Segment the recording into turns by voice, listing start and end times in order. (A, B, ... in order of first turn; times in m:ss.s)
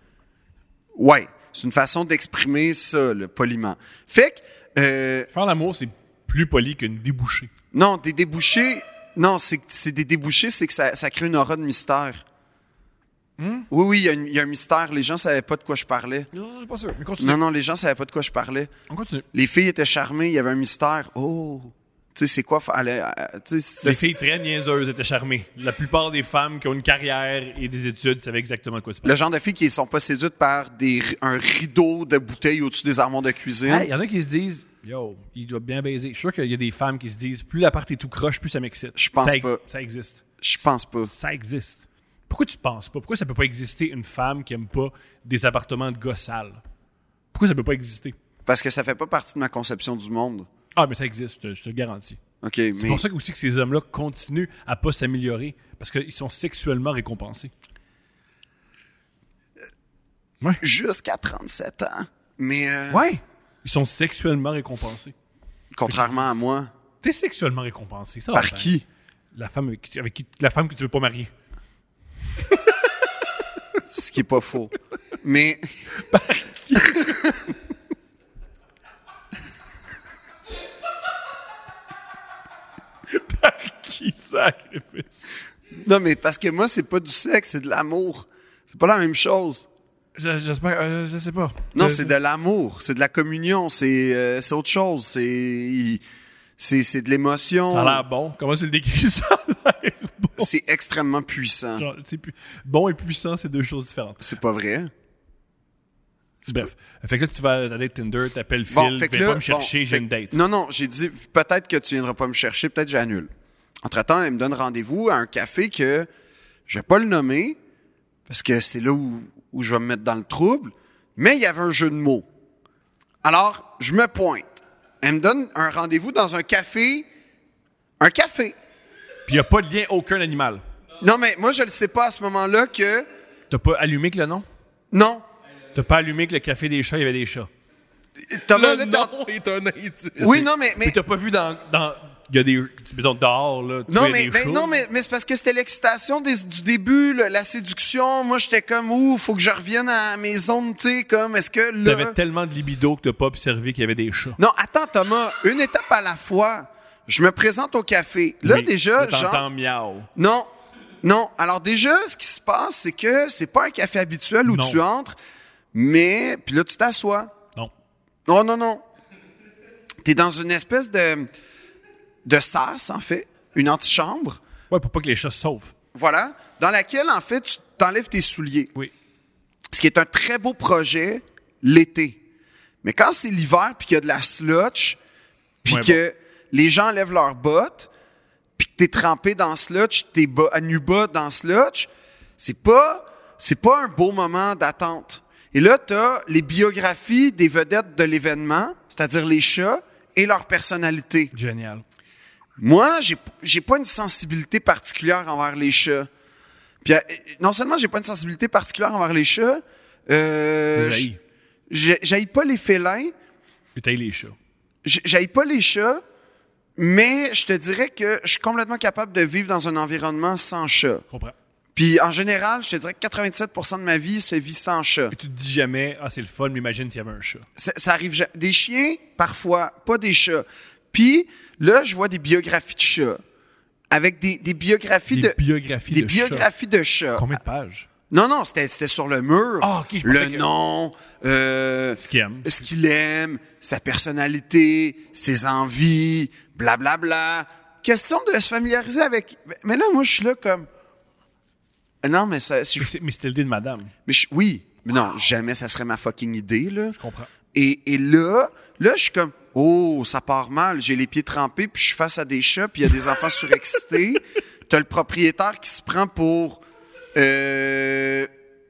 0:01.0-0:05.3 A
0:05.3-0:07.5 B
0:07.7-0:12.2 A
0:13.4-0:13.7 B
0:13.7-0:16.3 A
0:16.3-0:17.4 B
0:17.2-0:18.7 A
0:18.9-0:19.3 B
0:19.3-0:24.0 A
0:23.8-0:29.1 B
0:29.0-0:33.9 A
0:33.6-0:46.6 B
0:39.0-0:39.6 A
0:40.4-0:41.1 A
0:47.3-0:48.2 B
0:48.5-0:50.5 A
0:50.8-0:52.2 B
0:52.4-0:53.0 A
0:52.8-0:57.5 B
1:00.6-1:03.1 A
1:02.9-1:05.1 B
1:05.7-1:06.7 A
1:05.8-1:06.3 B
1:07.0-1:08.8 B
1:08.3-1:08.8 A
1:09.3-1:11.3 B
1:13.8-1:15.6 A
1:16.0-1:17.4 B
1:16.8-1:17.3 A
1:23.1-1:25.3 B
1:25.8-1:29.7 A
1:30.2-1:32.1 B
1:31.7-1:36.0 A
1:36.6-1:38.0 A
1:37.7-1:40.5 B
1:40.4-1:41.9 A
1:41.8-1:44.3 B
1:44.2-1:44.9 A
1:46.5-1:50.4 B
1:48.7-1:53.3 A
1:53.8-1:56.1 A
1:56.7-1:57.6 A
1:58.3-2:02.3 A
2:03.2-2:07.1 A
2:08.0-2:08.6 A
2:09.3-2:10.6 B
2:11.0-2:13.1 A
2:13.5-2:14.5 B
2:14.9-2:15.2 A
2:15.7-2:17.5 B
2:18.3-2:19.1 A
2:18.5-2:20.4 C
2:20.2-2:21.0 A
2:20.3-2:24.8 B
2:23.9-2:32.2 A
2:31.8-2:34.4 B
2:34.4-2:39.5 A
2:38.4-2:40.1 B
2:40.2-2:40.5 A
2:41.0-2:45.2 A
2:44.5-2:44.8 B
2:45.7-2:47.3 A
2:48.3-2:48.8 A
2:50.0-2:51.3 A
2:52.2-2:54.4 A
2:54.7-2:55.7 B
2:55.9-2:58.7 A
2:59.7-3:02.2 A
3:02.8-3:05.0 A
3:05.6-3:07.9 A
3:05.6-3:06.0 B
3:08.6-3:21.3 A
3:21.3-3:21.8 B
3:22.6-3:26.1 A
3:26.8-3:31.1 A
3:30.8-3:31.2 B
3:31.7-3:33.1 A
3:33.8-3:34.4 B
3:34.8-3:36.0 A
3:36.8-3:41.0 A
3:41.1-3:41.4 B
3:41.8-3:45.1 A
3:45.1-3:47.5 B
3:47.6-3:53.2 A
3:53.9-3:55.4 A
3:55.1-3:56.5 B
3:55.9-3:57.3 A
3:57.2-3:57.9 B
3:58.1-4:10.7 A
3:59.6-4:00.4 B
4:02.0-4:02.6 B
4:12.0-4:12.9 A
4:12.8-4:13.9 B
4:14.1-4:17.0 A
4:17.0-4:17.3 B
4:17.5-4:26.6 A
4:27.2-4:28.3 A